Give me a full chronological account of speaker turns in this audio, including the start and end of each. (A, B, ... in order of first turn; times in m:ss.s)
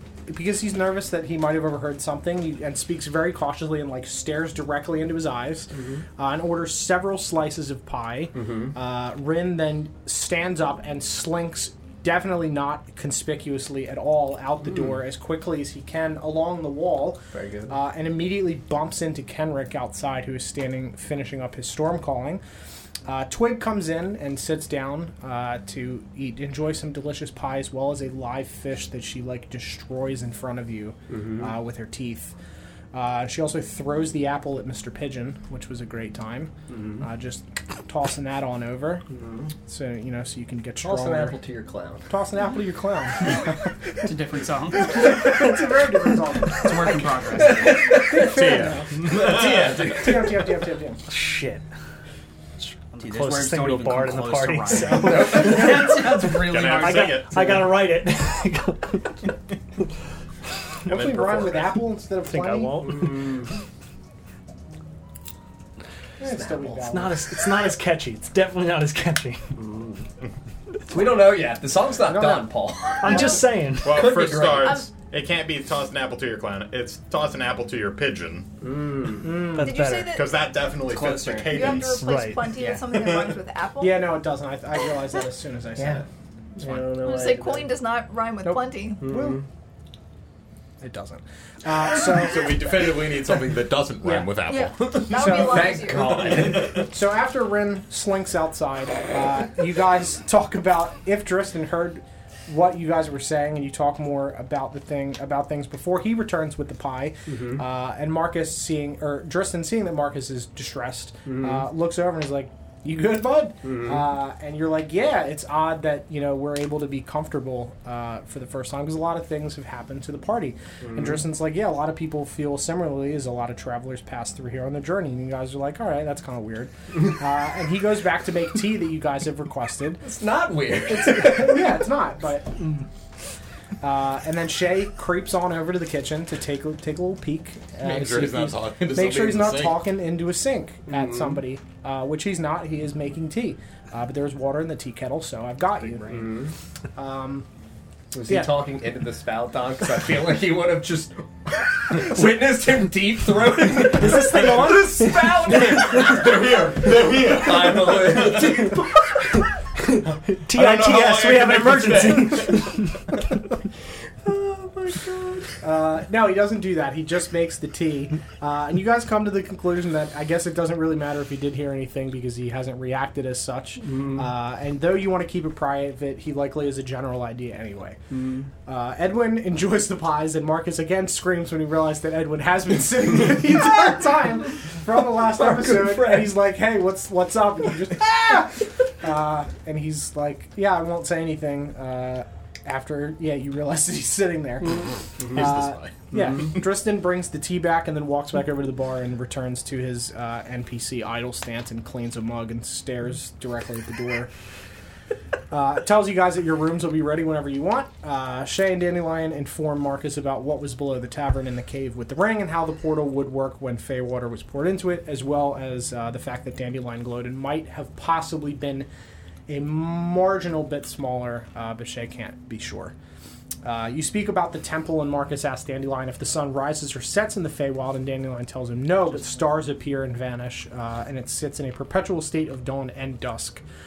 0:00.3-0:22.4 A
0:05.7-0:06.0 B
0:08.4-0:08.7 B
0:14.7-0:14.9 B
0:17.3-0:17.8 B
0:23.0-0:32.4 A
0:31.1-0:31.6 B
0:32.9-0:39.1 A
0:36.7-0:37.0 B
0:39.1-0:39.5 B
0:39.6-0:41.4 A
0:40.8-0:42.1 B
0:42.1-0:44.1 A
0:44.0-0:45.5 C
0:44.8-0:47.1 A
0:46.5-0:47.9 C
0:47.3-0:50.5 B
0:47.7-0:51.0 A
0:48.0-0:49.9 D
0:51.1-0:51.6 E
0:52.7-0:59.3 E
0:53.0-0:57.2 C
0:54.9-0:56.8 B
0:56.0-0:57.6 D
1:00.9-1:01.8 D
1:00.9-1:03.1 A
1:02.2-1:03.2 E
1:02.8-1:03.5 B
1:06.2-1:06.8 B
1:06.2-1:07.2 A
1:06.9-1:09.6 E
1:09.6-1:10.0 B
1:10.9-1:14.9 B
1:12.0-1:12.5 A
1:13.0-1:14.0 E
1:13.7-1:18.5 D
1:14.6-1:14.9 F
1:18.6-1:19.4 B
1:19.2-1:19.7 A
1:19.5-1:20.2 E
1:19.5-1:20.3 F
1:20.0-1:22.1 D
1:20.9-1:21.5 B
1:21.5-1:24.1 F
1:21.7-1:22.6 E
1:22.9-1:23.4 D
1:23.8-1:26.1 A
1:25.8-1:26.0 B
1:26.6-1:27.5 B
1:26.6-1:27.7 A
1:27.0-1:29.0 F
1:29.0-1:29.4 A
1:29.0-1:29.4 B
1:30.8-1:32.6 A
1:31.9-1:35.3 D
1:34.5-1:36.3 F
1:35.1-1:35.8 A
1:35.2-1:36.9 B
1:36.0-1:36.9 D
1:36.6-2:10.0 A
1:47.3-1:47.6 B
1:51.3-1:51.6 B
1:53.6-1:54.0 B
2:00.8-2:01.2 B
2:10.0-2:11.7 B
2:10.9-2:12.8 A
2:13.8-2:27.5 A
2:17.8-2:19.9 D
2:20.9-2:21.4 B
2:26.1-2:26.5 B
2:28.1-2:34.7 B
2:28.3-2:28.5 A
2:33.8-2:36.3 E
2:34.3-2:38.7 D
2:35.4-2:39.0 B
2:40.1-2:43.0 E
2:40.5-2:42.9 D
2:44.2-2:45.5 B
2:45.6-2:58.0 A
2:53.9-2:54.2 B
2:58.1-2:58.5 B
2:58.7-3:24.3 A
3:05.2-3:06.4 B
3:14.8-3:15.4 B
3:15.2-3:16.0 D
3:25.5-3:38.9 A
3:39.5-3:43.0 A
3:43.6-3:53.6 A